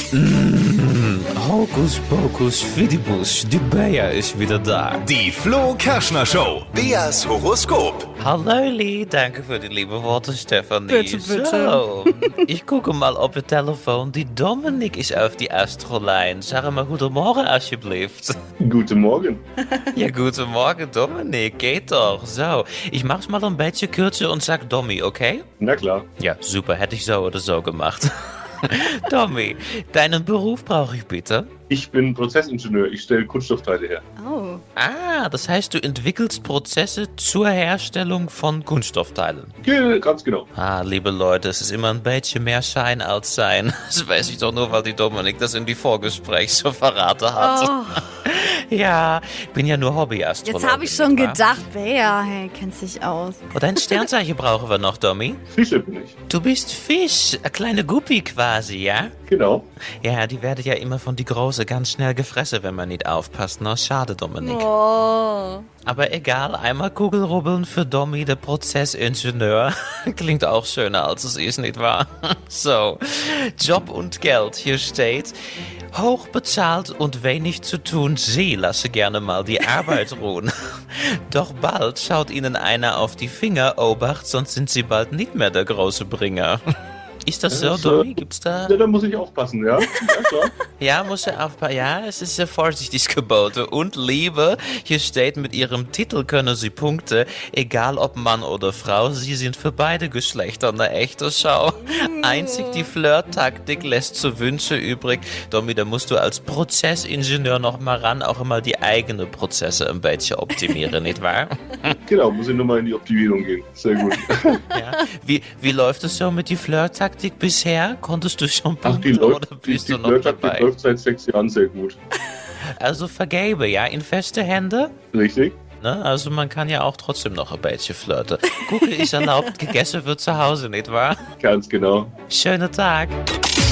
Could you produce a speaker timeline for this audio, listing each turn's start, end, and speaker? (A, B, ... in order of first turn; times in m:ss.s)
0:00.1-0:05.1 A
0:05.0-0:08.1 B
0:08.2-0:18.3 A
0:10.9-0:12.4 C
0:18.6-0:19.4 D
0:19.9-0:25.5 A
0:25.6-0:26.1 D
0:26.2-0:31.5 A
0:31.7-0:34.0 D
0:34.2-0:34.6 C
0:34.8-0:39.5 A
0:39.6-0:40.5 D
0:40.6-0:51.4 A
0:47.4-0:48.0 C
0:50.4-0:54.0 C
0:53.5-0:55.4 A
0:55.5-0:56.1 D
0:56.3-0:59.1 A
0:59.3-0:59.7 D
1:00.0-1:04.7 A
1:04.4-1:05.7 C
1:05.9-1:15.4 A
1:15.9-1:26.6 A
1:27.2-1:28.8 A
1:27.5-1:28.1 D
1:28.6-1:30.5 D
1:30.8-1:52.0 A
1:52.1-1:54.7 D
1:54.7-2:00.7 A
1:58.8-2:02.0 D
2:02.8-2:04.9 A
2:05.1-2:05.6 D
2:05.8-2:11.2 A
2:11.4-2:12.1 D
2:12.3-2:13.2 A